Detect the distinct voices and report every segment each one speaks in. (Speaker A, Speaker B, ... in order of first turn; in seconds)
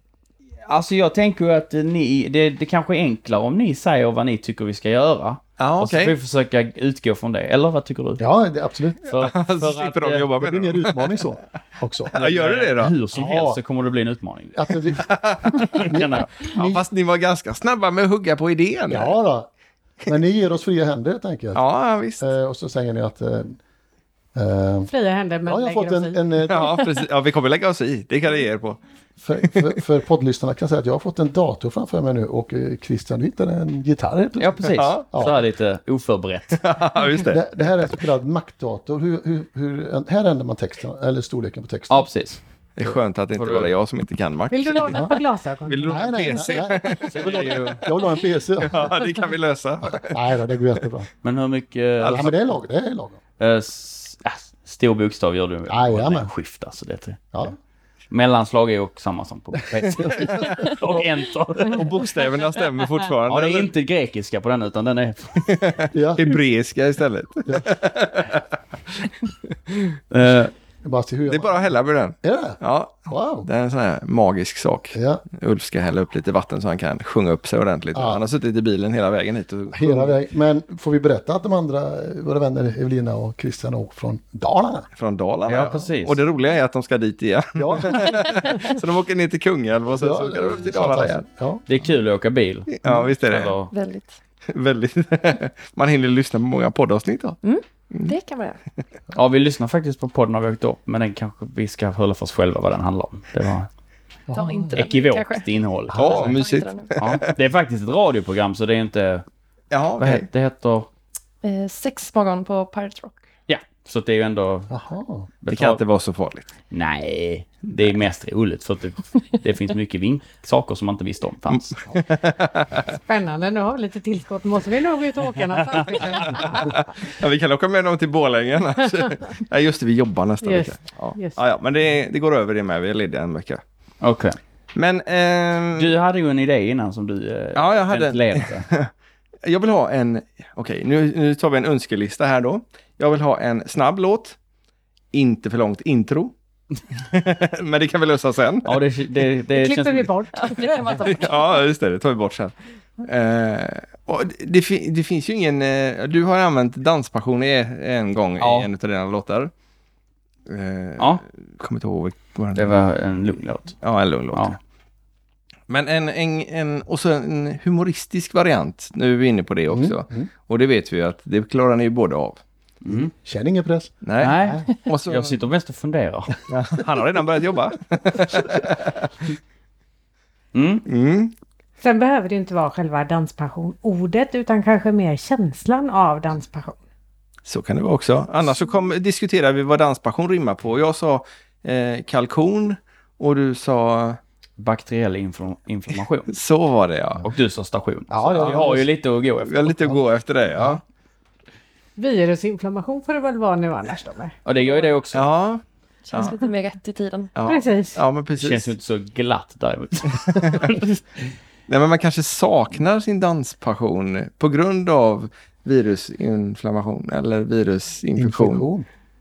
Speaker A: 0.7-8.2, 9.0-10.3, 12.1-14.7, 15.5-16.5, 34.4-36.6, 41.9-42.4, 43.3-43.7, 47.0-47.8, 51.2-52.4, 53.4-57.3, 58.1-61.9, 63.3-65.7, 70.1-70.5, 85.5-86.2, 91.7-93.7, 99.1-103.7, 104.7-106.3, 107.0-109.2, 110.0-110.9, 113.5-114.7, 115.4-115.8, 116.7-121.8, 134.0-134.4, 135.8-138.7, 148.7-150.1, 158.4-158.7, 162.6-163.8, 164.3-164.6, 172.8-173.1, 174.2-176.4, 180.5-180.8, 194.6-196.3, 197.2-199.9, 204.4-205.3, 208.4-210.9
Speaker B: 5.6-6.2, 9.2-11.2, 12.1-12.9, 15.0-15.5, 16.5-19.1, 21.5-22.3, 26.5-28.8, 29.4-29.7, 34.8-35.0, 36.6-37.4, 42.8-47.8, 48.6-50.2, 61.7-63.7, 65.5-68.4, 71.3-80.2, 85.0-91.2, 92.7-93.6, 94.5-97.4, 106.0-107.2, 109.7-110.3, 115.5-116.5, 121.9-122.8, 126.6-133.6, 134.8-135.9, 137.6-138.9, 139.4-144.4, 145.1-146.3, 147.1-148.8, 151.1-159.5, 160.5-162.7, 163.8-164.6, 165.7-172.4, 174.0-175.4, 176.5-179.0, 180.9-181.3, 187.5-194.2, 196.3-197.3, 198.4-198.7, 199.5-200.8, 205.1-206.3, 207.4-208.7, 211.7-218.7
Speaker C: 8.2-9.1, 10.4-12.1, 13.1-13.6, 14.5-16.8, 18.9-19.5, 20.1-21.6, 22.2-23.6, 24.3-24.9, 25.5-26.8, 29.2-35.4, 37.3-42.1, 45.9-48.9, 49.9-51.1, 52.0-53.2, 55.7-56.3, 60.0-60.5, 65.9-66.3, 70.8-71.5, 72.2-73.5, 74.9-75.2, 77.9-78.2, 79.7-84.9, 87.6-88.2, 90.0-91.6, 104.3-104.8, 105.9-106.4, 114.7-115.3, 169.7-170.3, 172.9-174.7, 198.1-198.9, 218.2-218.9
Speaker D: 24.9-26.2, 44.5-46.5, 122.9-126.7, 130.4-131.4, 149.5-151.1, 181.8-186.8, 202.0-204.8, 207.5-208.0
Speaker E: 93.7-94.2, 97.4-98.6, 104.3-105.5, 106.1-106.9, 111.4-113.2, 150.4-151.7, 206.1-207.3